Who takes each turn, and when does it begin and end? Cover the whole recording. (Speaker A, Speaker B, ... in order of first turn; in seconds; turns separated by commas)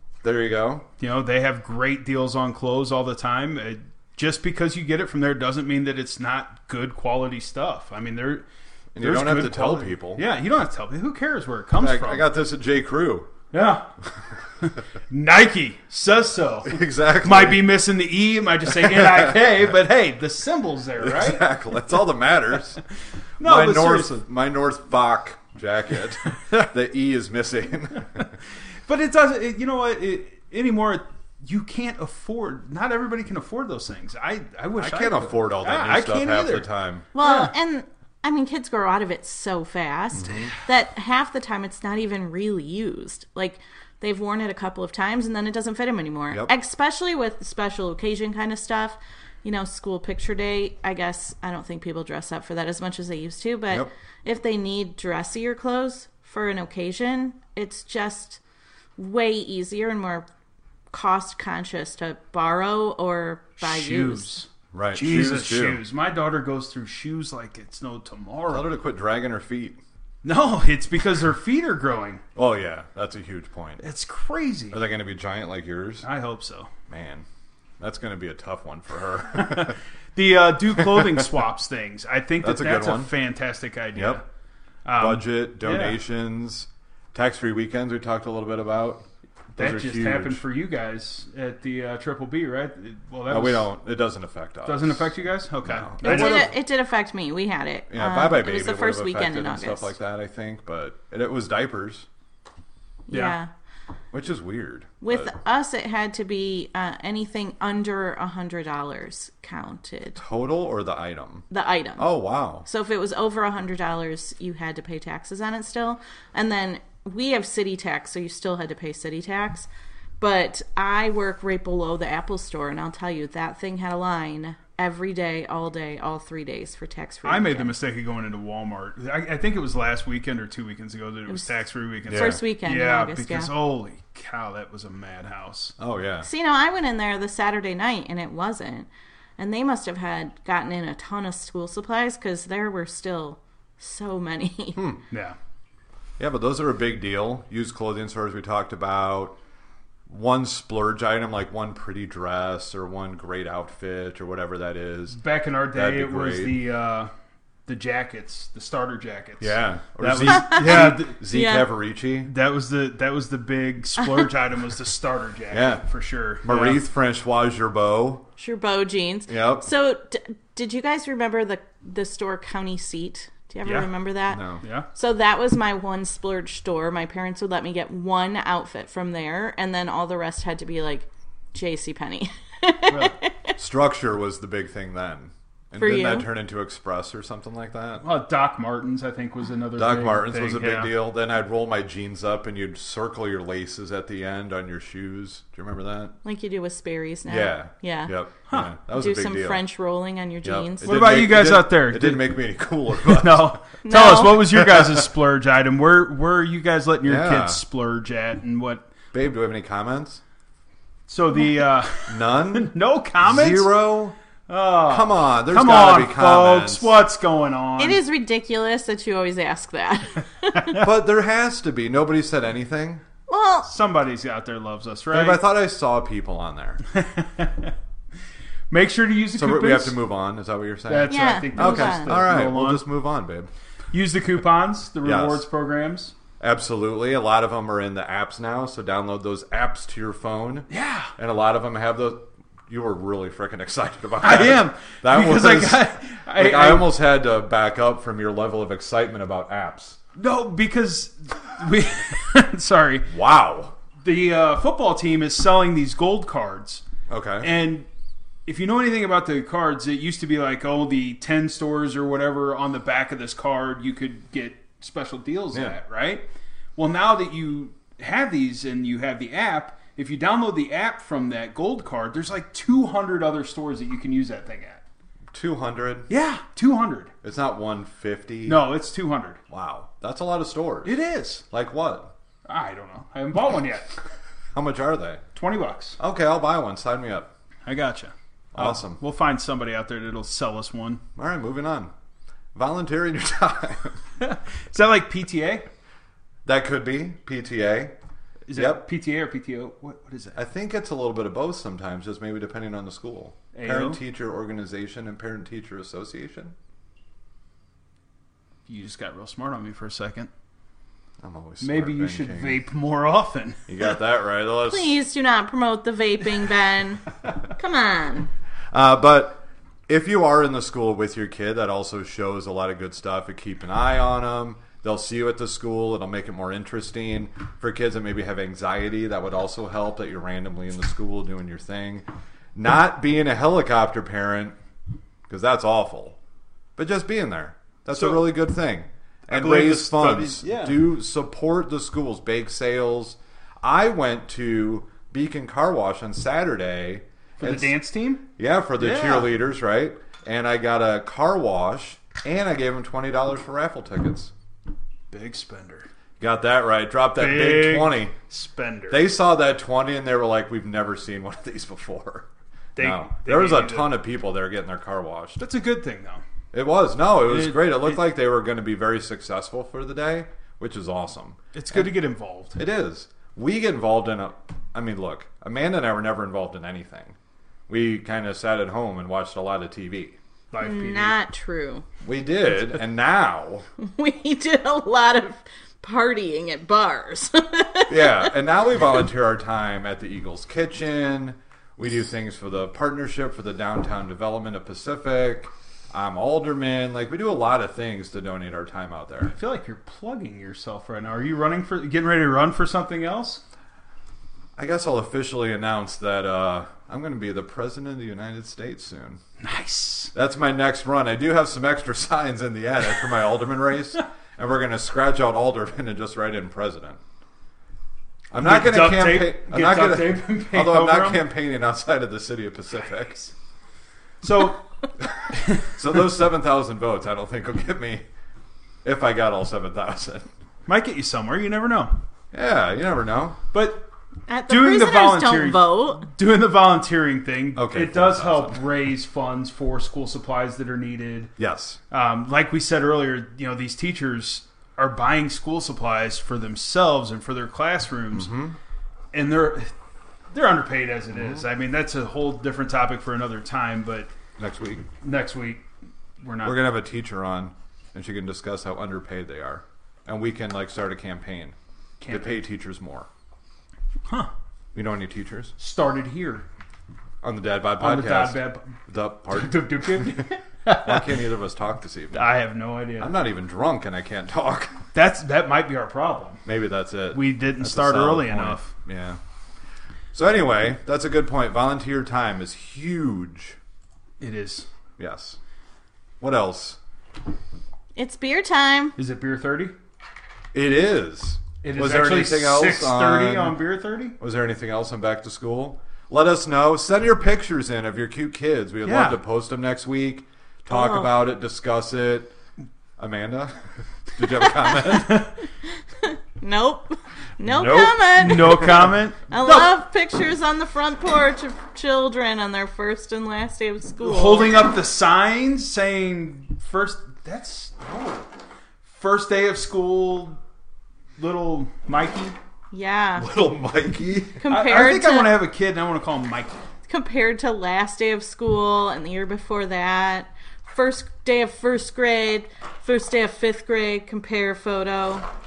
Speaker A: 0.2-0.9, Speaker B: 1.0-8.4, Speaker A: 8.9-10.2, Speaker B: 9.0-12.3, Speaker A: 11.8-13.3, Speaker B: 13.5-13.9, Speaker B: 14.6-21.5, Speaker A: 16.7-17.7, Speaker A: 18.8-19.4, Speaker A: 21.0-22.8, Speaker B: 23.4-24.2, Speaker A: 23.4-28.3, Speaker B: 28.9-36.7, Speaker A: 34.8-37.1, Speaker C: 37.1-58.4, Speaker B: 37.2-37.5, Speaker A: 40.2-40.5, Speaker C: 59.0-60.3, Speaker C: 60.9-64.4, Speaker B: 63.6-68.7, Speaker A: 64.7-65.8, Speaker A: 68.5-69.8, Speaker B: 70.2-72.2, Speaker A: 72.4-73.8, Speaker B: 73.8-74.8, Speaker A: 74.7-76.0, Speaker B: 76.0-76.7, Speaker A: 76.9-77.3, Speaker A: 77.8-79.8, Speaker B: 79.4-84.2, Speaker A: 80.8-81.3, Speaker A: 82.4-83.1, Speaker A: 84.0-84.2, Speaker B: 84.8-86.0, Speaker A: 85.0-90.4, Speaker B: 89.6-93.7, Speaker A: 93.3-95.1, Speaker B: 94.7-96.5, Speaker A: 95.6-96.5, Speaker C: 96.0-99.9, Speaker A: 97.9-102.1, Speaker C: 103.1-103.5, Speaker B: 103.1-103.4, Speaker A: 104.1-105.3, Speaker C: 105.0-110.2, Speaker A: 110.2-111.5, Speaker C: 111.5-112.1, Speaker A: 112.0-112.7, Speaker C: 112.7-119.7, Speaker C: 120.2-127.7, Speaker B: 127.2-135.8, Speaker A: 132.1-132.4, Speaker C: 132.1-133.5, Speaker A: 135.8-136.3, Speaker C: 136.2-144.8, Speaker B: 145.1-145.4, Speaker A: 146.2-149.4, Speaker A: 150.1-155.2, Speaker B: 155.1-157.1, Speaker A: 155.7-156.6, Speaker B: 157.7-161.2, Speaker A: 159.4-162.3, Speaker C: 160.3-161.7, Speaker B: 162.2-166.8, Speaker A: 165.5-165.8, Speaker A: 166.4-168.3, Speaker C: 168.4-183.6, Speaker A: 169.3-169.7, Speaker B: 173.7-173.9, Speaker A: 174.3-174.6, Speaker B: 174.6-174.9, Speaker B: 182.9-183.2, Speaker A: 183.6-188.1, Speaker C: 185.8-186.3, Speaker B: 188.0-190.9, Speaker A: 189.8-196.2, Speaker C: 196.2-198.1, Speaker A: 197.3-199.6, Speaker C: 198.9-201.0, Speaker A: 200.4-203.6, Speaker B: 200.8-202.4, Speaker B: 203.0-208.9, Speaker C: 203.8-204.6, Speaker A: 204.6-205.0, Speaker A: 207.1-207.6, Speaker A: 209.1-210.2, Speaker B: 211.1-213.7, Speaker A: 212.1-214.2, Speaker B: 214.5-218.0, Speaker A: 214.9-217.0, Speaker C: 217.8-220.8, Speaker A: 220.7-223.0, Speaker C: 223.3-223.7, Speaker B: 223.7-225.4, Speaker A: 225.1-226.8, Speaker B: 226.9-227.7, Speaker B: 228.7-230.0, Speaker A: 229.3-233.5, Speaker B: 230.9-232.8, Speaker C: 231.1-232.2, Speaker B: 233.9-236.1, Speaker A: 235.0-235.5, Speaker A: 236.4-250.0, Speaker B: 240.7-241.1, Speaker B: 244.2-246.9, Speaker B: 250.2-253.1, Speaker A: 253.1-253.8, Speaker B: 254.0-256.8, Speaker A: 257.1-257.5, Speaker B: 257.4-257.9, Speaker B: 258.5-274.8, Speaker A: 275.3-276.1, Speaker B: 276.1-277.1, Speaker A: 277.2-278.7, Speaker B: 278.5-279.4, Speaker A: 279.5-282.1, Speaker B: 280.8-281.4, Speaker B: 282.5-283.9, Speaker A: 284.5-285.2, Speaker B: 285.4-286.0, Speaker A: 286.0-287.3, Speaker B: 287.7-291.0, Speaker A: 288.5-289.0, Speaker A: 291.2-291.9, Speaker A: 292.6-294.0, Speaker B: 294.2-295.7, Speaker A: 296.4-298.0, Speaker B: 298.5-300.4, Speaker A: 298.5-298.9, Speaker A: 300.4-306.6, Speaker B: 303.5-304.0, Speaker B: 308.7-310.3, Speaker A: 311.2-312.6, Speaker B: 311.6-313.9, Speaker A: 313.7-315.0, Speaker C: 314.6-318.3, Speaker A: 318.7-334.6, Speaker A: 335.3-336.2, Speaker A: 336.8-347.8, Speaker B: 337.9-338.4, Speaker B: 339.3-340.8, Speaker B: 347.4-348.3, Speaker A: 348.4-354.3, Speaker B: 348.8-349.3, Speaker B: 355.1-355.9, Speaker A: 356.2-358.1, Speaker B: 357.2-359.0, Speaker A: 358.9-365.4, Speaker B: 362.8-363.9, Speaker B: 365.4-366.2, Speaker A: 366.5-371.9, Speaker B: 367.3-368.0, Speaker B: 371.5-372.6, Speaker A: 372.6-377.2, Speaker A: 377.7-380.2, Speaker B: 380.5-381.2, Speaker C: 380.6-381.9, Speaker A: 382.0-383.7, Speaker C: 383.8-388.3, Speaker A: 387.9-399.3, Speaker B: 399.3-403.4, Speaker A: 404.6-409.2, Speaker B: 409.4-410.1, Speaker A: 410.1-417.0, Speaker A: 418.3-423.2, Speaker B: 418.4-421.3, Speaker B: 423.0-423.3, Speaker B: 424.2-424.6, Speaker A: 425.2-428.1, Speaker B: 425.3-426.0, Speaker A: 428.8-430.3, Speaker B: 430.7-432.0, Speaker A: 432.3-433.4, Speaker B: 433.5-433.9, Speaker C: 434.3-436.1, Speaker B: 434.5-441.3, Speaker A: 437.6-438.6, Speaker A: 441.4-441.8, Speaker B: 441.9-448.3, Speaker A: 448.1-448.6, Speaker B: 449.1-449.7, Speaker B: 450.3-454.1, Speaker A: 451.1-451.4, Speaker A: 454.4-454.9, Speaker B: 455.0-455.6, Speaker B: 456.2-456.6, Speaker A: 456.4-461.6, Speaker B: 462.0-462.4, Speaker A: 462.1-463.1, Speaker A: 464.8-465.5, Speaker B: 465.6-466.5, Speaker A: 467.2-470.2, Speaker B: 467.8-471.2, Speaker A: 470.8-472.3, Speaker B: 472.1-473.1, Speaker A: 473.0-474.8, Speaker B: 474.9-476.4, Speaker A: 476.4-479.2, Speaker B: 477.1-478.7, Speaker A: 480.1-483.6, Speaker B: 484.2-484.7, Speaker A: 485.0-485.4, Speaker A: 486.2-486.8, Speaker C: 488.0-489.0, Speaker B: 489.0-489.7, Speaker A: 490.5-493.6, Speaker B: 491.6-494.2, Speaker A: 494.2-502.3, Speaker B: 498.8-499.2, Speaker C: 500.7-501.1, Speaker A: 503.0-505.3, Speaker C: 504.4-505.1, Speaker B: 504.9-505.3, Speaker C: 506.0-508.8, Speaker A: 507.5-508.9, Speaker B: 507.6-509.8, Speaker C: 509.3-514.6, Speaker B: 514.0-518.2, Speaker B: 518.9-520.4, Speaker B: 521.2-522.4, Speaker C: 522.7-523.3, Speaker A: 523.2-524.4, Speaker C: 524.4-525.4, Speaker B: 524.5-526.6, Speaker C: 526.9-535.3